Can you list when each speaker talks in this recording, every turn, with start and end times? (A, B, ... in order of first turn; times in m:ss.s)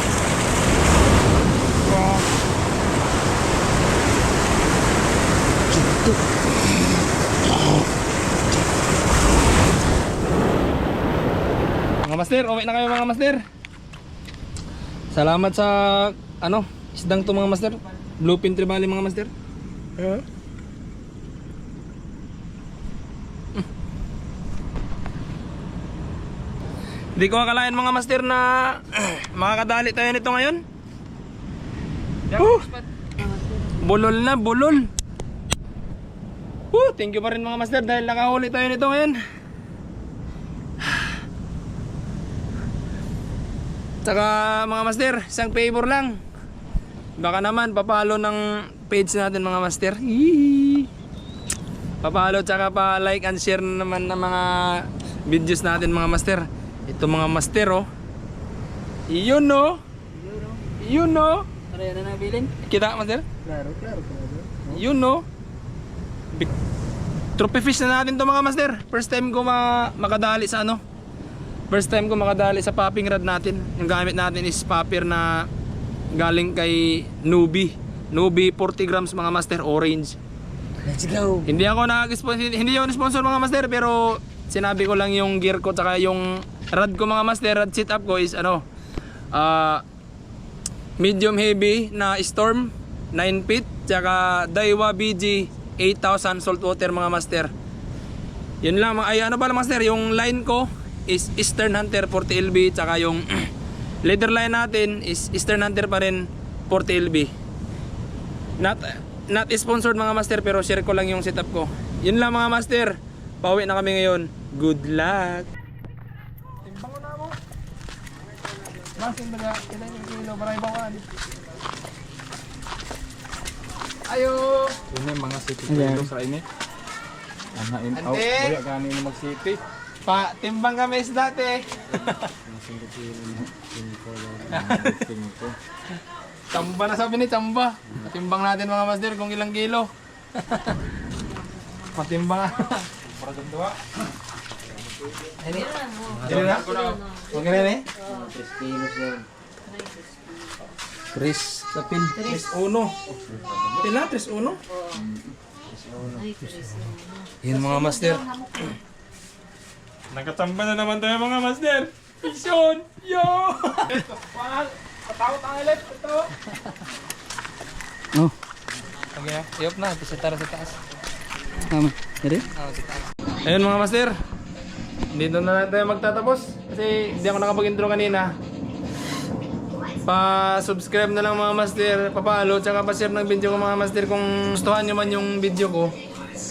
0:12.0-0:13.4 A
0:15.1-0:19.3 A
0:20.0-0:20.2 A
0:27.2-0:30.6 A
0:32.3-0:32.7 A
0:32.4-0:32.6 B
0:33.8-0:34.9 A
0:36.7-0:39.2 A
0:44.0-0:46.2 A
0:47.2-0:50.9 A
0:52.0-0:57.9 A
0:59.1-0:59.8 A
1:00.1-1:00.6 B
1:00.8-1:01.5 A
1:01.7-1:02.5 B
1:02.6-1:03.3 A
1:03.4-1:04.8 B
1:04.7-1:05.2 A
1:07.4-1:10.8 A
1:11.7-1:15.5 A
1:16.1-1:20.2 A
1:20.8-1:21.5 B
1:21.4-1:28.6 A
1:29.3-1:29.8 A
1:31.0-1:37.5 A
1:38.6-1:43.5 A
1:44.0-1:47.3 A
1:48.6-1:55.5 A
1:56.6-1:57.4 A
1:58.8-2:01.1 A
2:04.1-2:04.9 A
2:04.9-2:06.4 C
2:05.7-2:06.1 B
2:07.5-2:09.6 C
2:07.9-2:08.6 A
2:10.0-2:12.3 A
2:12.4-2:15.6 C
2:14.5-2:15.0 A
2:16.5-2:20.8 A
2:21.9-2:22.9 A
2:23.2-2:23.7 C
2:25.4-2:27.9 A
2:26.2-2:26.5 C
2:26.5-2:26.8 B
2:28.0-2:30.2 B
2:31.1-2:33.0 A
2:31.7-2:32.2 B
2:33.8-2:34.6 A
2:35.9-2:36.9 B
2:37.4-2:38.7 A
2:40.1-2:46.5 A
2:49.1-2:50.8 A
2:51.7-2:52.4 B
2:52.5-2:54.2 A
2:55.1-2:58.4 A
3:00.0-3:05.9 A